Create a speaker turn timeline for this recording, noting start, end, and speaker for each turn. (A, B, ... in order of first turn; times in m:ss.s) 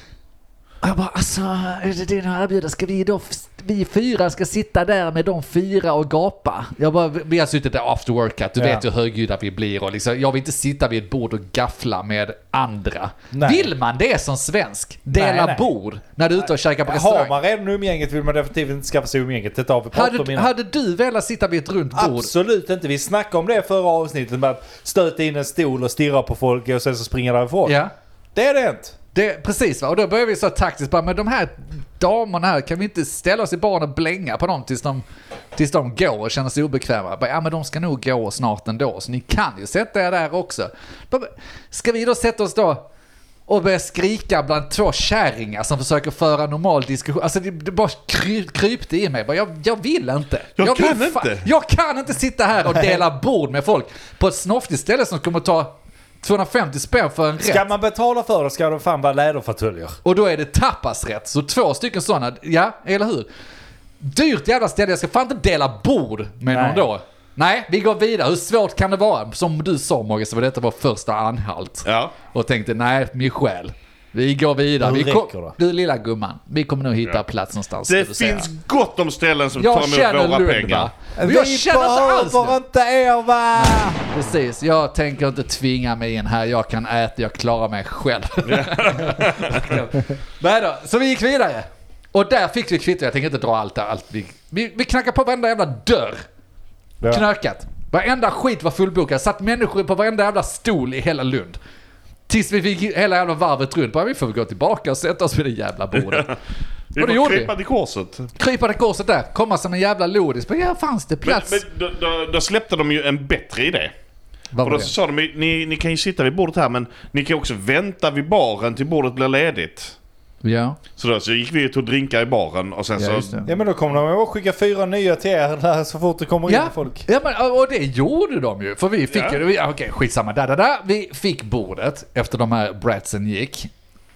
0:00.8-0:17.4 A
0:08.6-0:08.8 B
0:13.3-0:13.7 B
0:15.1-0:15.7 B
0:16.8-0:20.5 B
0:19.9-0:22.3 A
0:21.9-0:27.8 B
0:27.6-0:27.9 A
0:28.3-0:29.0 B
0:29.1-0:35.0 A
0:35.5-0:42.8 A
0:43.5-0:57.6 A
0:50.6-0:51.5 C
0:52.7-0:53.0 B
0:57.4-1:00.0 B
1:00.0-1:03.3 A
1:04.0-1:18.5 A
1:06.5-1:06.9 B
1:11.8-1:12.1 C
1:14.8-1:15.6 B
1:17.8-1:20.9 C
1:19.6-1:22.6 A
1:21.2-1:24.0 B
1:23.5-1:36.2 A
1:28.4-1:29.8 C
1:37.1-1:41.6 A
1:42.3-1:46.3 A
1:45.9-1:46.3 C
1:46.9-1:48.3 C
1:47.0-1:47.5 A
1:48.4-1:51.6 A
1:51.2-1:53.9 C
1:54.5-1:54.9 A
1:54.6-2:00.0 C
2:00.4-2:00.8 A
2:01.0-2:03.4 C
2:03.0-2:03.5 A
2:03.4-2:07.0 B
2:06.5-2:13.7 A
2:09.1-2:09.4 C